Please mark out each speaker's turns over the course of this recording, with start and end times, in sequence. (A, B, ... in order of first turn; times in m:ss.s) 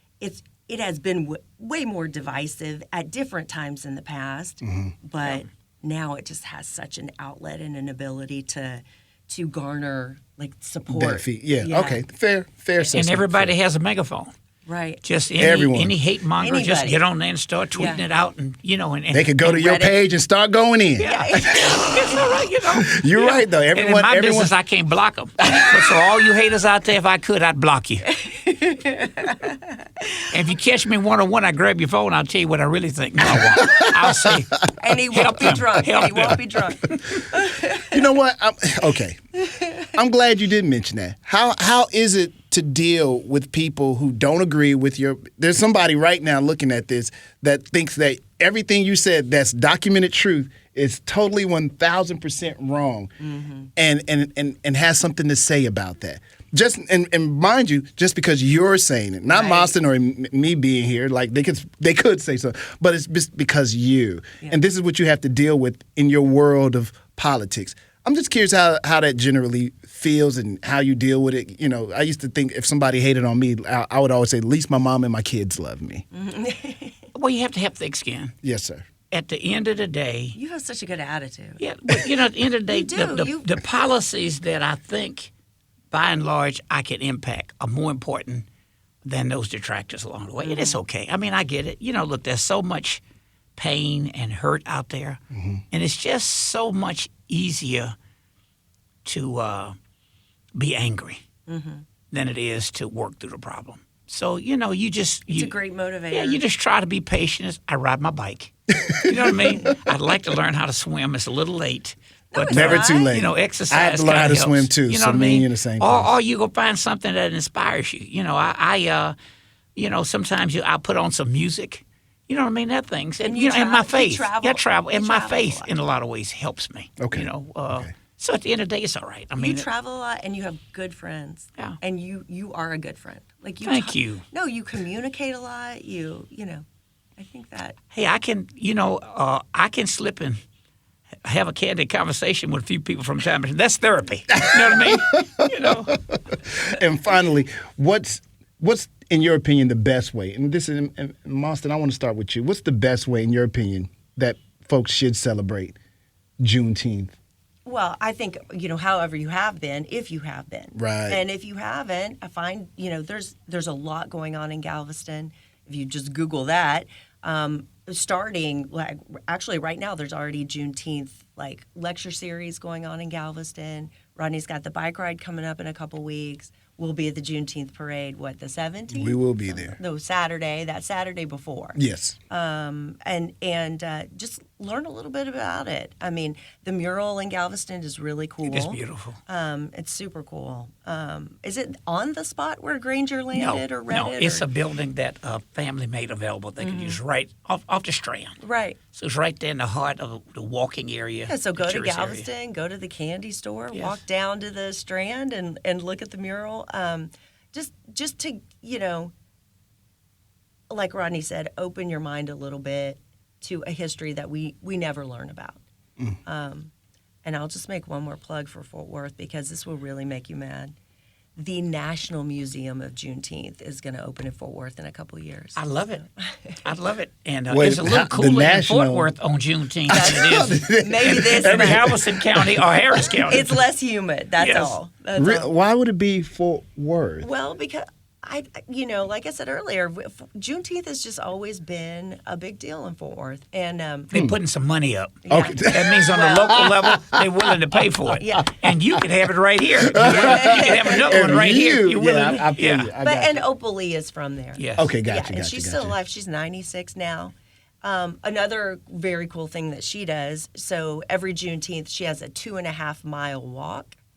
0:00.2-0:12.0 A
0:04.6-0:04.9 B
0:10.9-0:13.5 B
0:12.9-0:14.3 C
0:14.6-0:15.0 A
0:15.0-0:19.7 C
0:15.4-0:15.9 B
0:16.4-0:17.0 A
0:17.7-0:18.0 A
0:19.1-0:21.1 B
0:19.4-0:19.9 A
0:21.0-0:28.1 C
0:21.0-0:22.3 A
0:22.7-0:24.5 B
0:25.6-0:25.9 B
0:28.1-0:29.8 A
0:30.3-0:34.6 C
0:33.3-0:34.4 B
0:34.8-0:38.0 A
0:35.1-0:37.2 C
0:37.8-0:39.2 B
0:39.4-0:39.9 A
0:39.9-0:53.1 B
0:53.2-0:53.7 A
0:53.8-1:16.0 B
0:59.3-0:59.7 A
1:16.1-1:17.1 A
1:17.1-1:18.3 C
1:18.4-1:18.8 B
1:19.1-1:20.4 C
1:20.3-1:22.1 A
1:21.6-1:25.3 C
1:22.7-1:23.6 A
1:25.9-1:28.4 C
1:29.0-1:33.0 C
1:30.4-1:30.8 A
1:33.6-1:35.2 C
1:35.3-1:35.6 B
1:35.7-1:38.0 C
1:39.0-1:39.8 C
1:40.5-1:41.2 C
1:41.5-1:41.8 A
1:42.1-1:45.6 C
1:45.3-1:46.4 A
1:46.1-1:59.1 C
1:48.8-1:49.8 B
1:52.3-1:53.2 A
1:52.5-1:56.1 B
1:59.8-2:09.6 C
2:03.2-2:05.7 A
2:07.0-2:07.9 B
2:09.4-2:16.6 A
2:13.6-2:14.2 C
2:17.2-2:17.8 A
2:17.9-2:20.4 C
2:21.2-2:25.9 C
2:24.3-2:35.8 B
2:36.4-2:37.1 B
2:37.6-3:14.5 A
2:40.7-2:41.2 B
2:58.9-2:59.8 B
3:01.8-3:02.2 B
3:08.4-3:09.2 C
3:13.3-3:18.4 C
3:16.6-3:17.0 A
3:18.4-3:18.8 A
3:18.9-3:22.3 C
3:21.2-3:29.1 A
3:23.7-3:24.0 C
3:30.7-3:35.6 A
3:36.2-3:36.7 A
3:37.2-3:40.7 A
3:41.4-3:46.6 A
3:45.6-3:46.0 C
3:46.6-3:53.5 C
3:47.5-3:49.1 B
3:49.9-3:52.6 B
3:49.9-3:52.0 A
3:53.2-3:55.5 A
3:54.4-3:54.8 C
3:55.2-3:57.3 B
3:57.2-4:04.1 A
4:04.1-4:12.9 C
4:04.1-4:04.4 B
4:05.2-4:06.6 A
4:05.3-4:07.6 B
4:08.1-4:08.6 A
4:09.8-4:13.4 B
4:09.9-4:11.4 A
4:13.0-4:24.0 A
4:14.6-4:14.9 C
4:14.8-4:15.9 B